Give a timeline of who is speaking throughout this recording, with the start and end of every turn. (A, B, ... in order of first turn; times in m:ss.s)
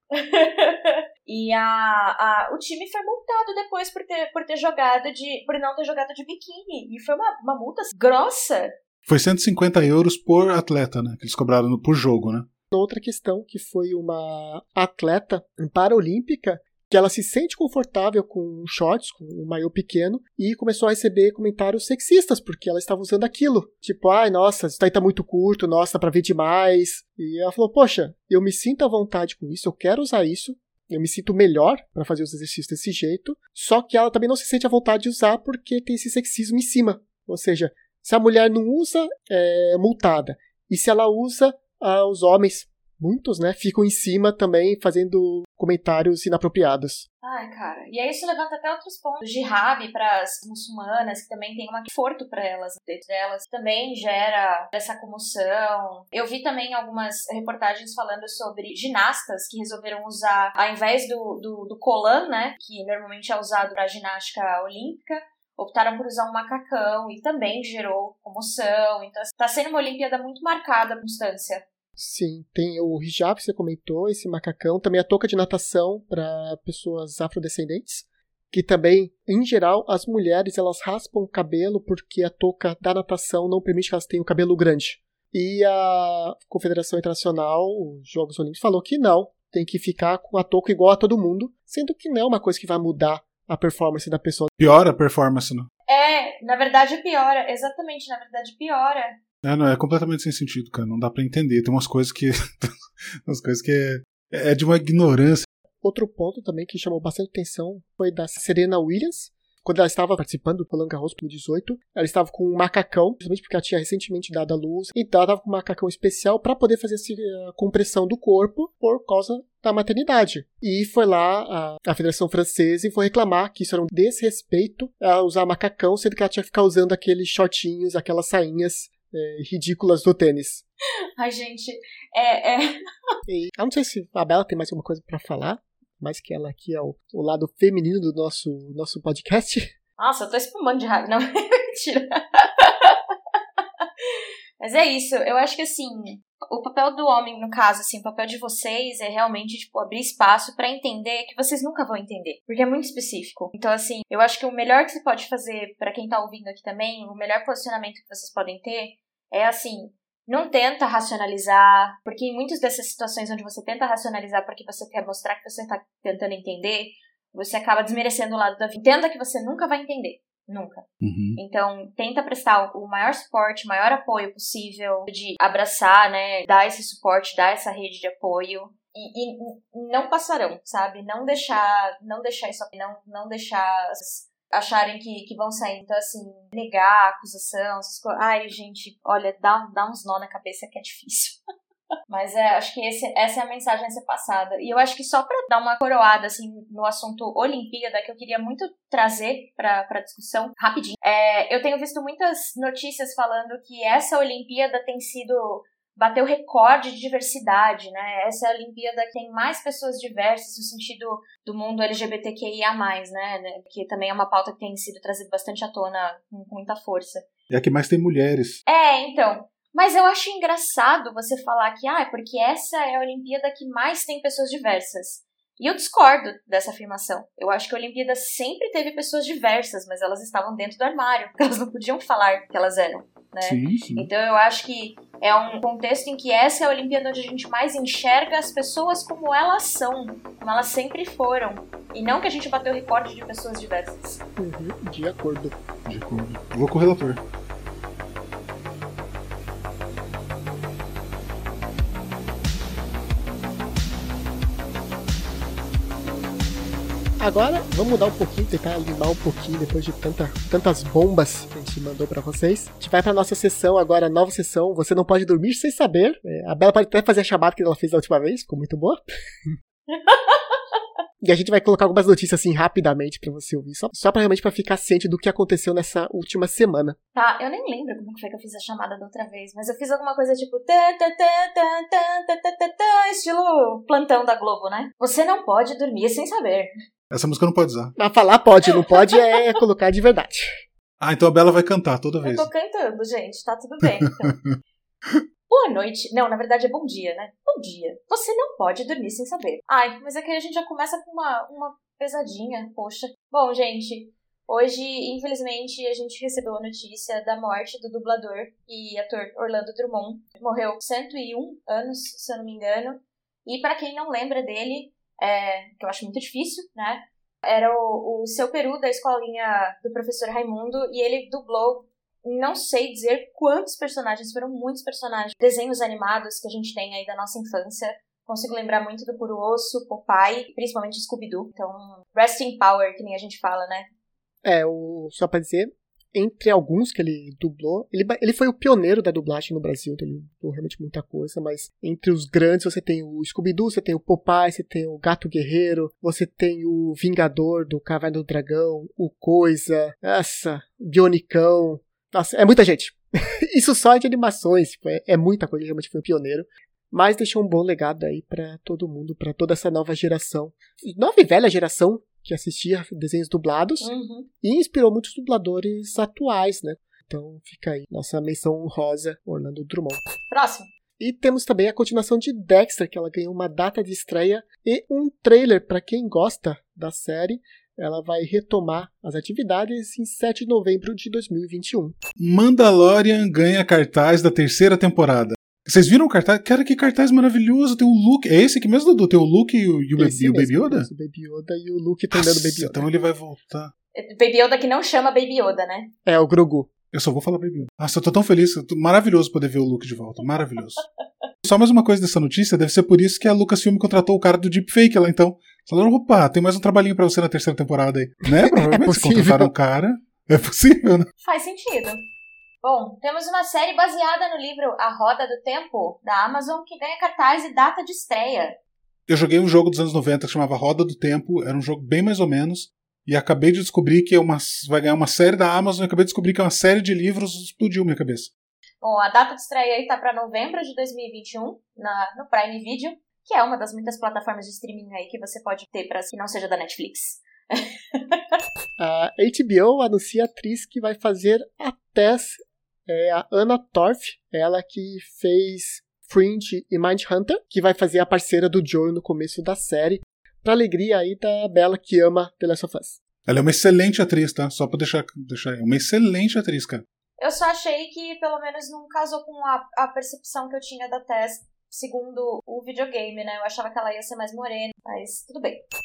0:00.1-0:08.7 A
0:09.1-0:12.5 B
0:12.7-0:47.1 C
0:47.2-1:11.6 A
1:12.0-1:34.5 C
1:34.6-1:35.7 B
1:35.9-1:39.2 A
1:39.4-1:42.7 B
1:43.2-1:45.4 B
1:45.8-2:10.6 C
2:11.2-2:12.7 A
2:13.3-2:19.7 C
2:20.0-2:23.0 A
2:24.0-2:50.8 A
2:51.0-2:51.4 B
2:51.4-3:11.4 A
3:12.1-3:37.3 A
3:37.5-3:38.6 B
3:38.7-4:04.2 A
3:53.4-3:54.1 B
4:04.4-4:05.5 C
4:05.8-4:07.2 B
4:17.2-4:29.5 C
4:29.9-4:30.6 A
4:31.2-4:37.0 C
4:37.1-4:46.7 A
4:47.1-4:47.9 B
4:48.0-4:50.5 C
4:48.8-4:49.4 A
4:51.0-4:52.5 B
4:52.2-4:54.4 A
4:53.8-4:54.5 B
4:55.5-5:33.9 A
5:34.4-6:03.9 C
6:03.8-6:04.3 A
6:04.4-6:10.0 C
6:10.3-6:10.7 A
6:11.0-6:22.0 C
6:22.2-6:30.9 B
6:30.0-6:32.8 C
6:32.1-6:33.7 B
6:33.9-6:35.9 A
6:36.0-6:36.7 C
6:36.9-6:40.8 B
6:41.4-6:51.1 B
6:48.4-6:49.5 C
6:51.2-6:52.0 A
6:52.6-6:58.6 A
6:59.1-7:08.3 B
7:08.8-7:18.2 A
7:18.8-7:33.0 C
7:33.3-7:36.8 B
7:37.2-7:45.6 A